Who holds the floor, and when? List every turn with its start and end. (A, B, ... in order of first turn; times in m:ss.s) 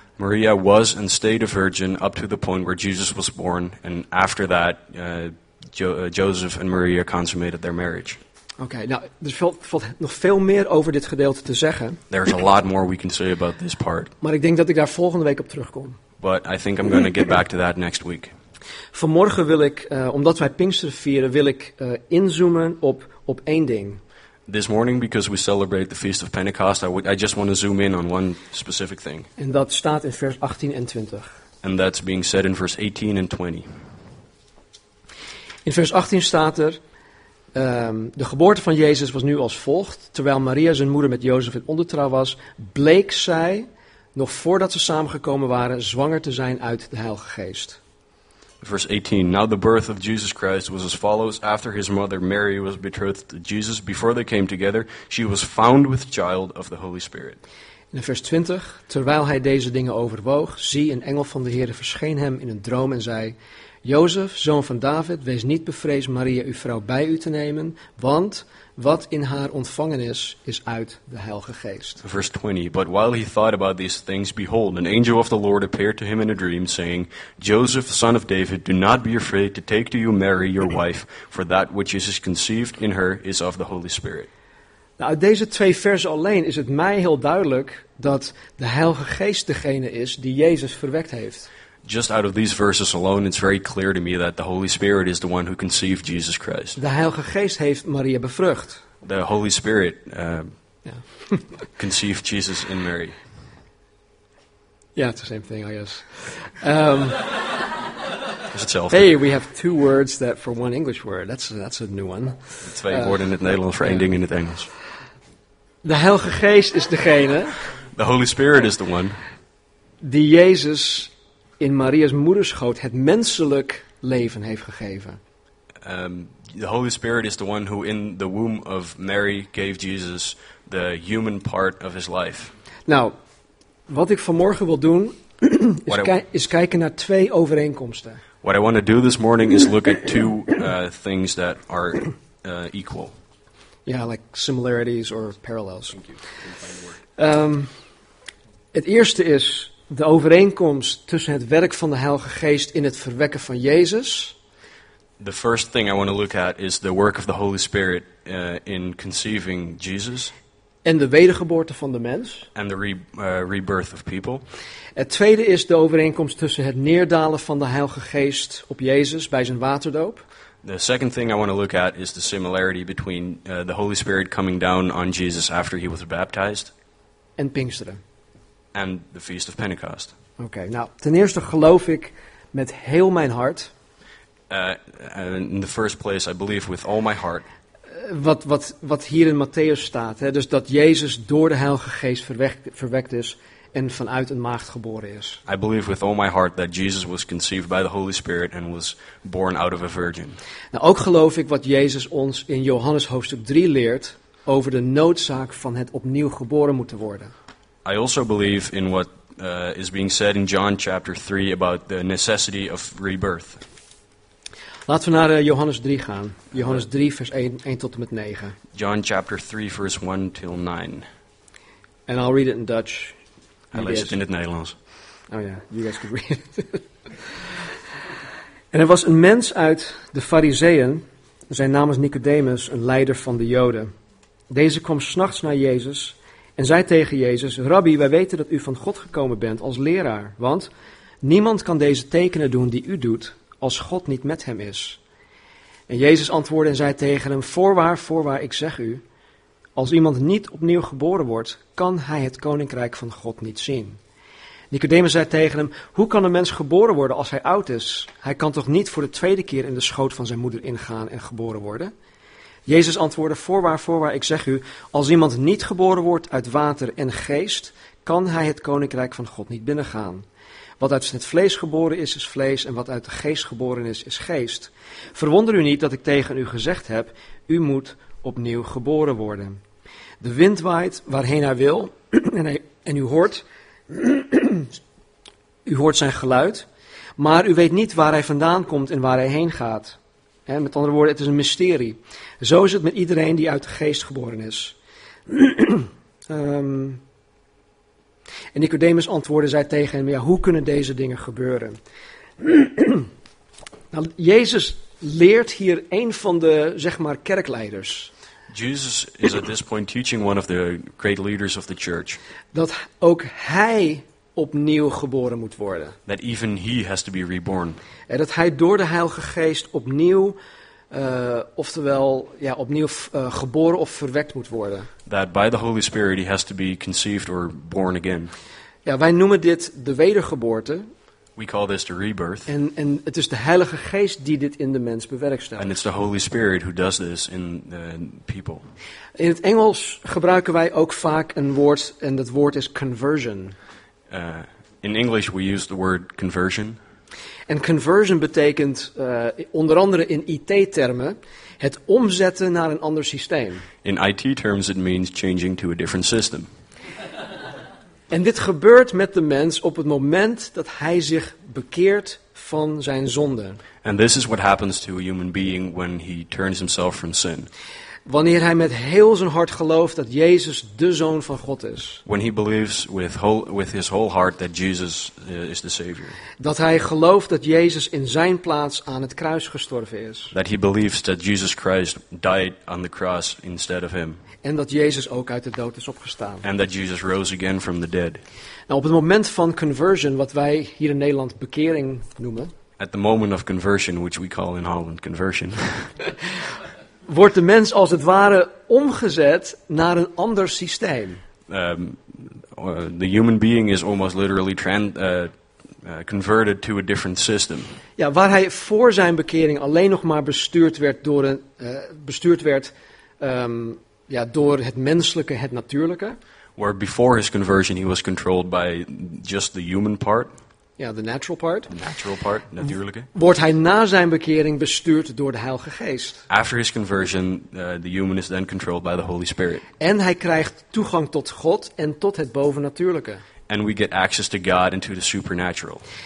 0:00.2-0:08.2 A
0:08.6-0:12.0 B
0:12.1-0:14.1 A
0:14.2-0:16.0 B
0:16.2-0:18.3 A
0:18.9-0:24.0 B
0:24.5-0:29.3 A
0:29.4-0:31.3 B
0:31.6-0:33.7 A
0:35.6-0:36.8 B
0:37.5-0:47.8 B
0:48.6-0:57.4 A
0:57.9-1:12.0 B
1:12.0-1:24.3 A
1:25.0-1:31.5 B
1:31.8-1:36.8 A
1:36.8-1:38.8 B
1:39.0-1:40.5 A
1:40.9-1:41.3 B
1:41.8-1:43.2 A
1:45.0-1:47.4 B
1:48.5-1:49.1 A
1:48.9-1:53.2 B
1:52.6-1:54.7 A
1:55.8-1:57.6 B
1:57.9-1:59.2 A
2:00.0-2:05.2 B
2:05.8-2:12.5 A
2:12.9-2:13.2 B
2:13.9-2:18.2 B
2:15.9-2:16.1 A
2:18.4-2:23.1 A
2:23.9-2:26.0 B
2:26.0-2:27.0 A
2:27.2-2:27.7 B
2:28.7-2:34.4 B
2:35.2-2:40.3 A
2:40.8-2:42.5 B
2:42.6-2:44.4 A
2:45.0-2:50.2 B
2:50.6-2:56.7 A
2:57.4-2:58.0 B
2:58.7-3:00.1 A
3:00.4-3:03.7 B
3:04.5-3:07.5 A
3:07.9-3:15.4 B
3:15.5-3:20.4 A
3:20.7-3:27.3 B
3:27.8-3:33.6 A
3:34.9-3:38.6 B
3:38.7-3:41.0 A
3:42.1-3:43.2 B
3:43.7-3:44.8 A
3:43.7-3:44.2 B
3:45.3-3:46.8 B
3:48.7-3:53.9 B
3:54.5-4:00.7 B
4:01.2-4:05.0 B
4:05.9-4:09.0 B
4:09.8-4:14.0 B
4:14.7-4:21.9 B
4:22.7-4:30.3 B
4:30.8-4:39.6 B
4:40.2-4:44.8 B
4:45.7-4:46.7 B
4:47.2-4:54.8 B
4:55.3-4:57.0 B
4:58.5-5:01.8 B
5:02.4-5:03.1 B
5:03.9-5:08.1 B
5:08.5-5:12.2 A
5:12.5-5:16.0 B
5:16.1-5:17.8 A
5:18.1-5:20.4 B
5:20.9-5:24.9 B
5:25.1-5:28.3 A
5:28.8-5:30.9 B
5:31.4-5:32.5 A
5:32.5-5:35.7 B
5:35.6-5:38.6 A
5:39.2-5:43.6 B
5:44.1-5:46.8 A
5:47.5-5:53.7 B
5:53.8-5:56.5 A
5:58.1-6:03.6 B
6:03.8-6:07.5 A
6:08.1-6:12.0 B
6:12.1-6:16.2 A
6:16.4-6:20.3 B
6:20.3-6:24.2 A
6:24.4-6:26.4 B
6:26.4-6:28.2 A
6:28.7-6:32.5 B
6:32.8-6:36.0 A
6:37.1-6:41.2 B
6:41.5-6:47.8 A
6:48.0-6:56.2 B
6:56.6-7:00.3 A
7:00.8-7:01.7 B
7:01.7-7:03.1 A
7:03.1-7:06.2 B
7:06.3-7:09.6 A
7:09.8-7:13.2 B
7:13.5-7:15.8 A